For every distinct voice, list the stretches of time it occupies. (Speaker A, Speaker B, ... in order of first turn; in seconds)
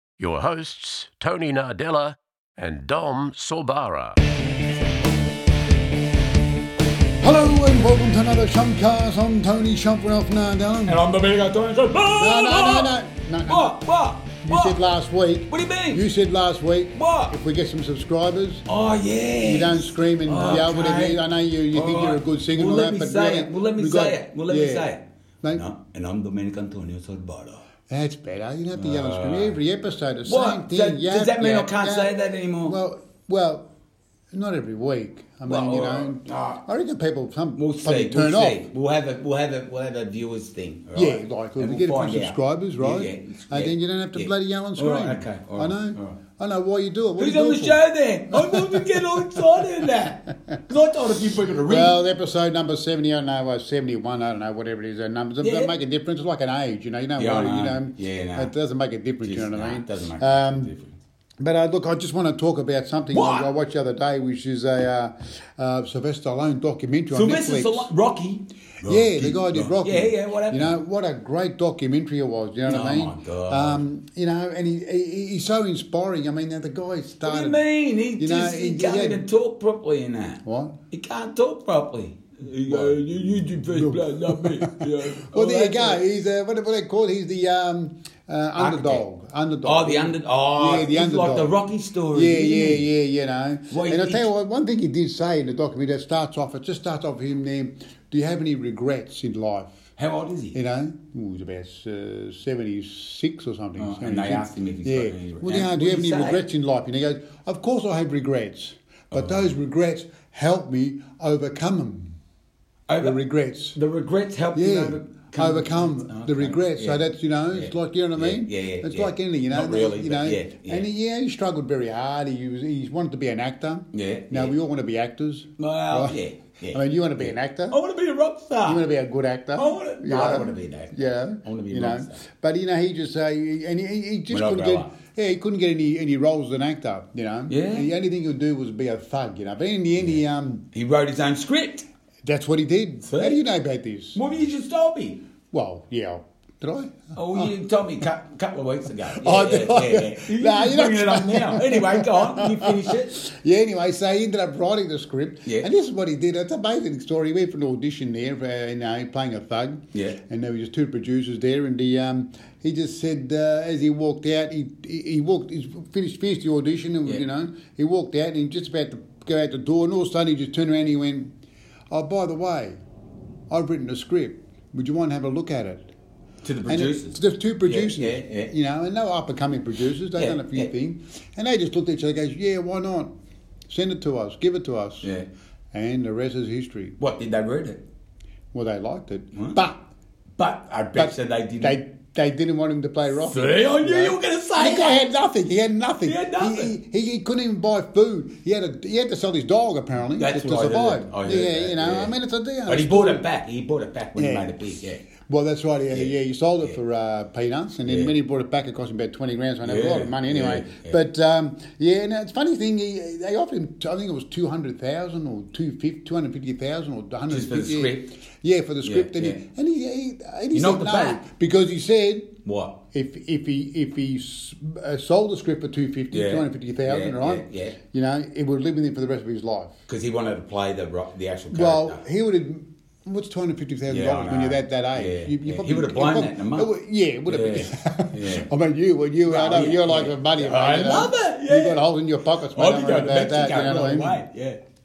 Speaker A: 0.2-4.2
Speaker B: 7.2-11.0, 12.1-13.7, 14.4-18.6, 19.4-24.9, 27.9-33.7, 34.3-38.7, 40.9-49.9, 51.6-60.7, 61.4-67.9, 68.8-77.6, 78.2-79.2, 80.4-80.8, 82.7-91.5, 92.1-99.9, 100.5-112.2, 113.0-113.8, 114.5-126.2, 126.7-127.8, 128.6-140.7, 142.2-144.2, 145.5-147.5, 149.1-171.3, 171.9-172.8, 173.5-175.9, 176.7-183.1, 183.7-185.1, 185.7-187.0, 188.5-189.8, 190.9-203.2, 204.2-222.4, 222.9-229.8, 231.5-244.2
Speaker C: 10.8-12.9, 13.5-14.8, 15.5-16.0, 16.9-17.3, 18.7-21.2, 21.7-25.0, 25.5-27.6, 28.7-29.6, 30.2-32.8, 35.5-36.6, 37.6-46.2, 47.2-51.9, 55.4-55.7, 57.2-58.5, 59.2-61.0, 63.1-63.5, 67.1-70.7, 72.7-73.8, 77.2-86.0, 88.6-89.0, 89.6-92.8, 93.7-94.3, 100.0-100.6, 103.8-106.4, 109.1-109.5, 112.9-113.2, 113.7-120.9, 123.9-124.5, 125.6-128.8, 129.6-132.2, 134.3-134.9, 137.5-137.9, 140.7-141.9, 143.0-143.4, 144.1-145.2, 147.1-153.2, 159.9-160.2, 176.4-178.5, 180.2-180.7, 187.0-187.8, 189.3-189.6, 190.4-191.8, 193.2-195.0, 196.0-196.7, 200.2-202.1, 202.7-205.0, 207.8-208.1, 209.6-211.0, 217.3-218.1, 218.8-219.4, 220.5-221.2, 222.4-222.8, 226.1-227.8, 229.9-232.0, 233.9-236.7, 237.3-238.5, 239.2-241.8, 242.5-244.6